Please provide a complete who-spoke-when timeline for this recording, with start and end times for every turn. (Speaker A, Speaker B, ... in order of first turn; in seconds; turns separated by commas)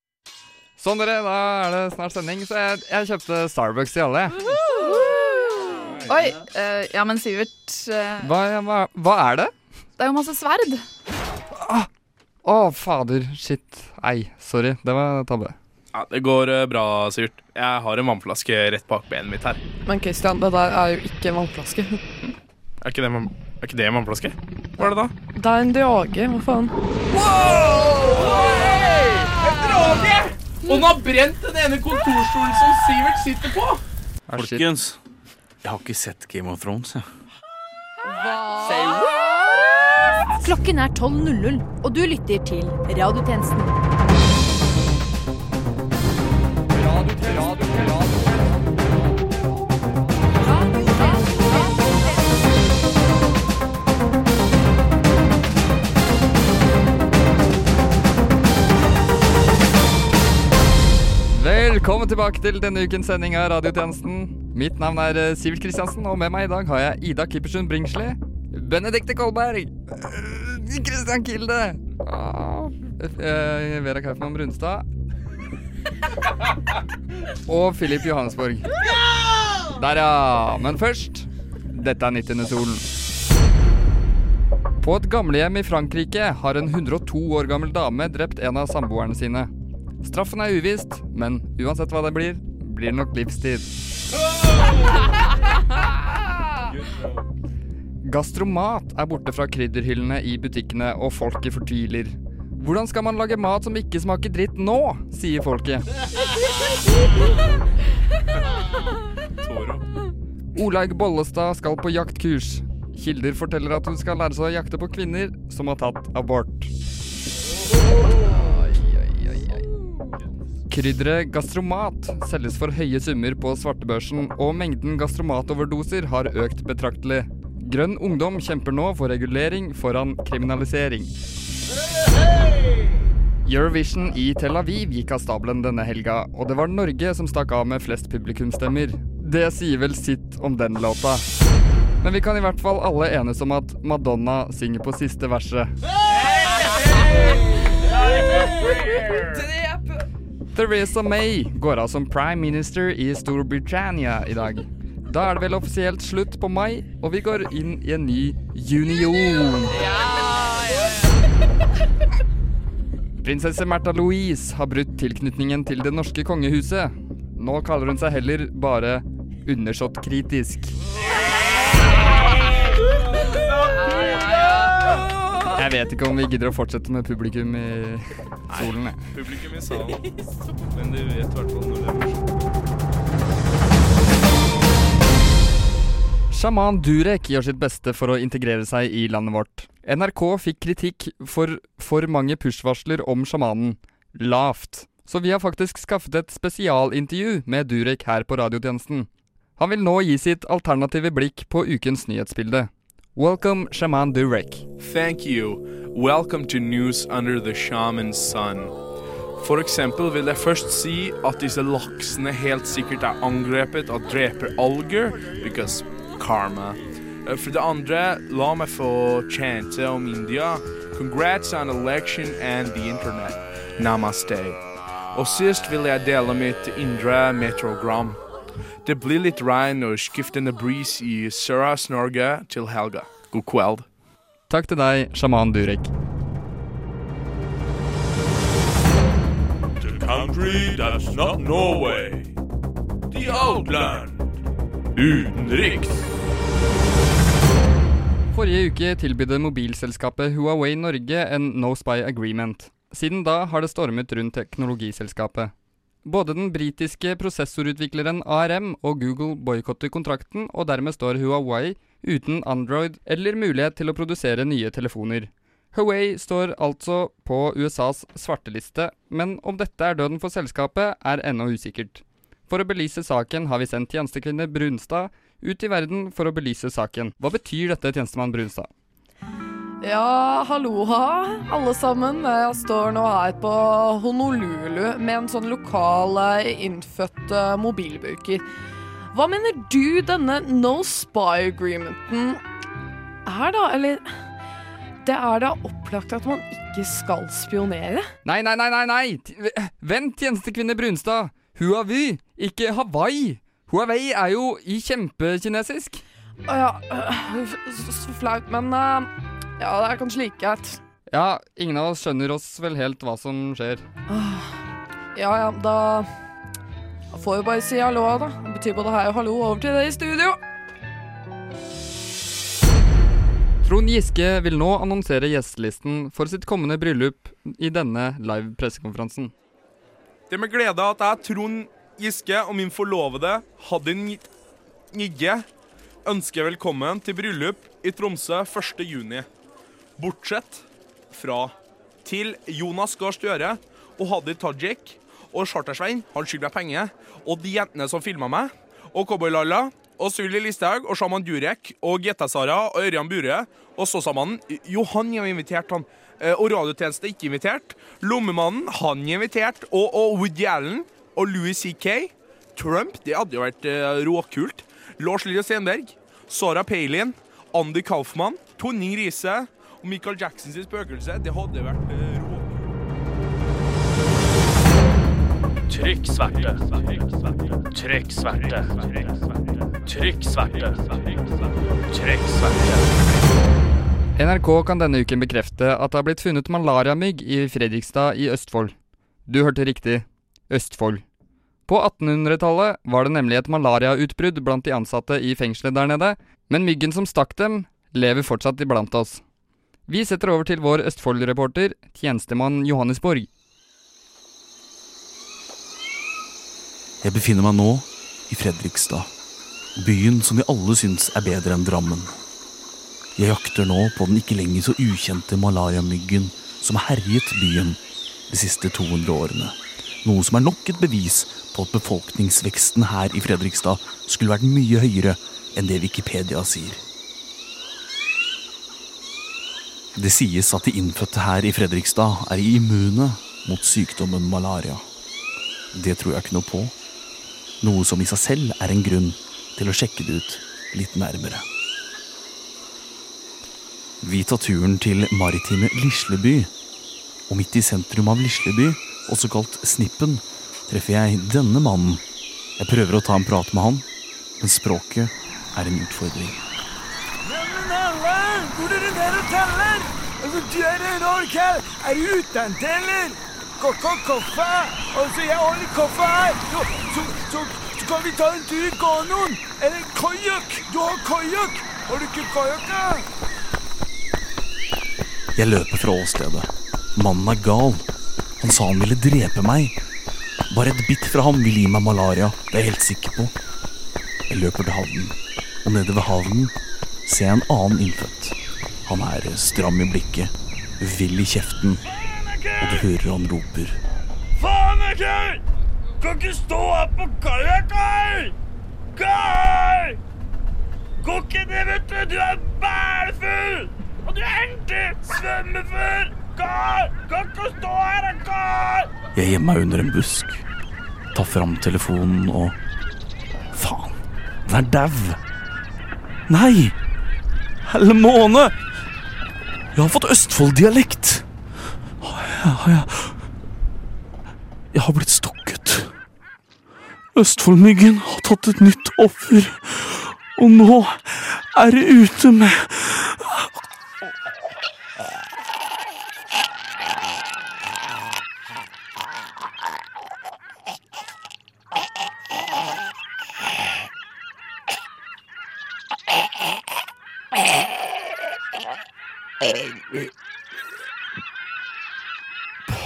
Speaker A: 0.8-4.5, Speaker B: 4.5-8.3, Speaker A: 8.2-9.5, Speaker B: 10.0-10.8, Speaker A: 11.5-11.9, Speaker A: 12.4-15.6, Speaker C: 15.9-19.6, Speaker D: 19.9-22.0, Speaker C: 22.8-25.1, Speaker D: 25.4-26.8, Speaker C: 27.2-33.8, Speaker A: 34.3-34.7, Speaker E: 34.3-35.0, Speaker E: 35.6-37.1, Speaker D: 38.0-39.7, Speaker F: 40.4-43.8, Speaker A: 46.8-49.4, Speaker D: 50.5-51.7, Speaker A: 61.3-74.9, Speaker A: 77.5-78.7, Speaker A: 79.7-82.9, Speaker A: 84.8-89.5, Speaker A: 90.0-93.7, Speaker A: 98.0-105.9, Speaker C: 109.4-109.9, Speaker A: 110.6-116.7, Speaker A: 118.5-119.6, Speaker A: 120.7-131.1, Speaker A: 133.4-141.2, Speaker A: 142.0-145.7, Speaker A: 150.5-159.9, Speaker A: 163.2-170.8, Speaker C: 173.1-175.0, Speaker A: 175.5-179.0, Speaker C: 178.5-180.1, Speaker C: 180.7-182.4, Speaker A: 186.3-204.7, Speaker C: 204.8-208.7, Speaker C: 209.4-224.6, Speaker C: 225.1-228.2, Speaker C: 228.8-233.8, Speaker A: 234.5-235.9, Speaker G: 239.8-242.3, Speaker G: 243.1-244.2, Speaker G: 245.0-246.0, Speaker A: 248.3-255.5, Speaker A: 256.1-278.7, Speaker D: 279.8-288.4, Speaker D: 289.1-292.4, Speaker D: 293.2-294.2, Speaker D: 295.0-298.1, Speaker A: 298.2-306.0, Speaker D: 306.5-310.8, Speaker A: 311.1-313.9, Speaker D: 314.1-314.6, Speaker D: 315.1-316.1, Speaker D: 317.1-320.4, Speaker A: 323.6-329.3, Speaker C: 330.3-334.3, Speaker C: 334.9-335.5, Speaker C: 336.1-339.3, Speaker C: 340.0-372.8, Speaker H: 375.7-376.8, Speaker H: 377.7-379.0, Speaker H: 379.9-380.9, Speaker H: 381.9-382.7, Speaker A: 384.2-388.8, Speaker A: 389.3-391.0, Speaker A: 391.7-399.2, Speaker A: 399.9-403.3, Speaker E: 407.0-409.1, Speaker E: 409.8-412.1, Speaker E: 413.2-426.8, Speaker E: 429.9-434.9, Speaker E: 435.7-436.7, Speaker E: 437.6-441.4, Speaker E: 444.0-446.5, Speaker E: 447.3-452.0, Speaker E: 452.6-453.9, Speaker E: 454.4-456.4, Speaker I: 457.2-473.1, Speaker E: 475.4-477.9, Speaker E: 478.4-479.8, Speaker E: 480.5-483.3, Speaker E: 484.3-486.5, Speaker E: 487.1-491.8, Speaker I: 492.0-492.9, Speaker E: 492.6-493.8, Speaker I: 494.4-495.4, Speaker I: 496.0-498.3, Speaker I: 498.9-500.0, Speaker I: 501.0-508.9, Speaker E: 509.1-510.5, Speaker E: 511.1-512.6, Speaker E: 513.5-515.2, Speaker E: 516.3-516.8, Speaker E: 517.6-518.6, Speaker E: 519.7-521.3, Speaker E: 522.0-523.2, Speaker E: 524.7-526.0, Speaker E: 527.1-533.5